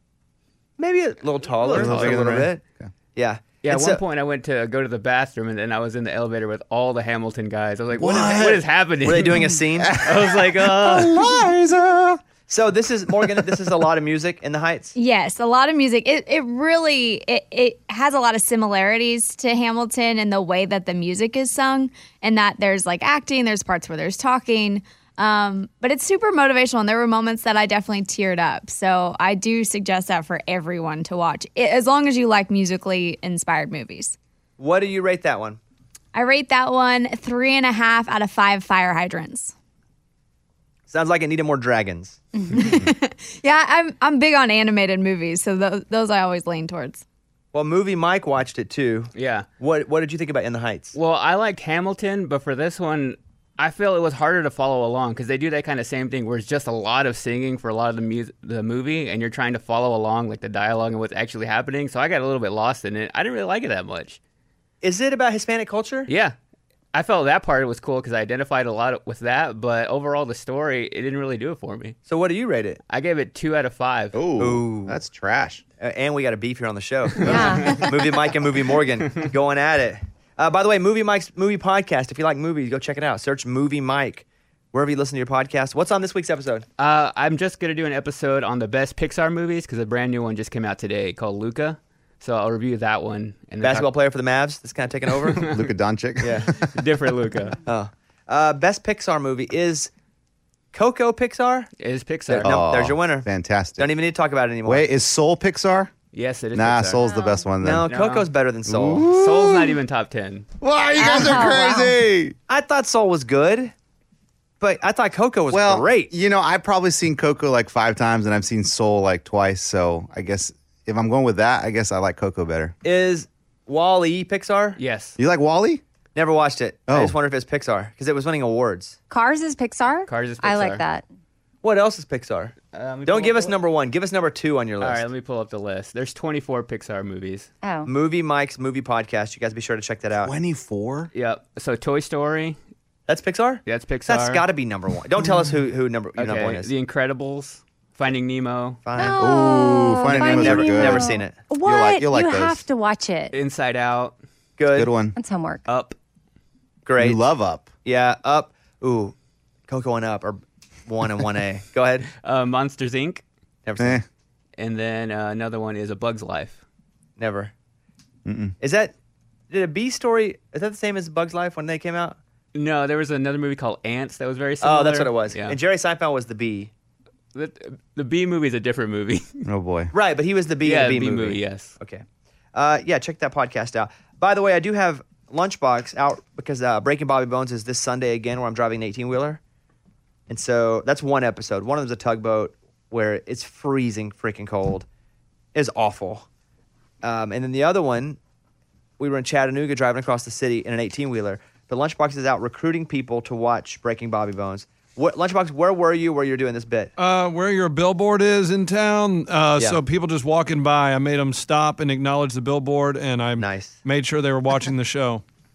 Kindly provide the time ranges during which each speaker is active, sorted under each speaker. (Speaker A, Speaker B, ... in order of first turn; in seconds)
Speaker A: 0.8-2.6, 3.1-4.0, 9.0-11.2, 12.5-14.9, 34.6-35.6, 40.9-42.2, 47.5-51.0, 64.8-66.1, 72.1-72.8, 74.4-75.0, 75.8-86.7, 93.6-95.5, 96.2-96.6, 97.7-99.9, 100.7-101.7, 102.3-104.8, 107.6-109.1, 112.5-113.7, 114.6-116.1, 122.8-124.8, 126.1-129.0, 131.6-135.0, 137.9-140.3, 143.1-146.7, 148.8-149.2, 150.1-151.4, 154.6-154.9, 156.8-157.2, 157.8-159.1, 159.7-162.1, 163.6-164.0, 167.2-167.5, 168.6-168.9, 169.5-172.2, 174.6-176.7, 179.9-189.4, 190.3-194.9, 195.5-196.2, 197.0-198.2, 199.0-206.9, 213.4-213.8
Speaker B: 1.6-2.2, 3.6-11.0, 49.1-49.5, 50.9-64.2, 66.1-66.3, 66.9-72.0, 72.9-74.2, 86.8-93.9, 95.2-95.7, 96.6-97.6, 101.8-102.6, 106.1-107.0, 107.9-108.3, 109.1-110.5, 124.8-125.1, 130.1-130.8, 132.7-133.6, 134.8-137.5, 141.1-142.6, 143.6-144.4, 146.2-148.8, 153.3-154.2, 155.7-155.9, 162.2-163.2, 164.6-166.6, 172.5-175.6, 177.3-179.3, 180.6-181.7
Speaker C: 1.7-2.9, 7.9-8.7, 9.7-12.2, 13.2-13.6, 74.1-75.6, 95.4-96.7, 102.4-103.9, 104.6-105.9, 106.5-107.9, 108.7-109.8, 110.6-112.4, 115.5-122.7, 125.2-125.8, 126.9-127.1, 140.2-141.1, 149.2-151.1, 151.6-152.6, 154.7-155.2, 157.0-157.7, 163.8-164.0, 168.2-168.5, 179.4-179.9
Speaker D: 14.9-34.1, 36.1-39.5, 42.5-47.0
Speaker E: 77.2-77.8, 107.0-107.4, 111.0-111.9, 129.1-131.0, 137.6-137.9, 149.0-153.3, 155.2-155.6
Speaker F: 207.0-215.2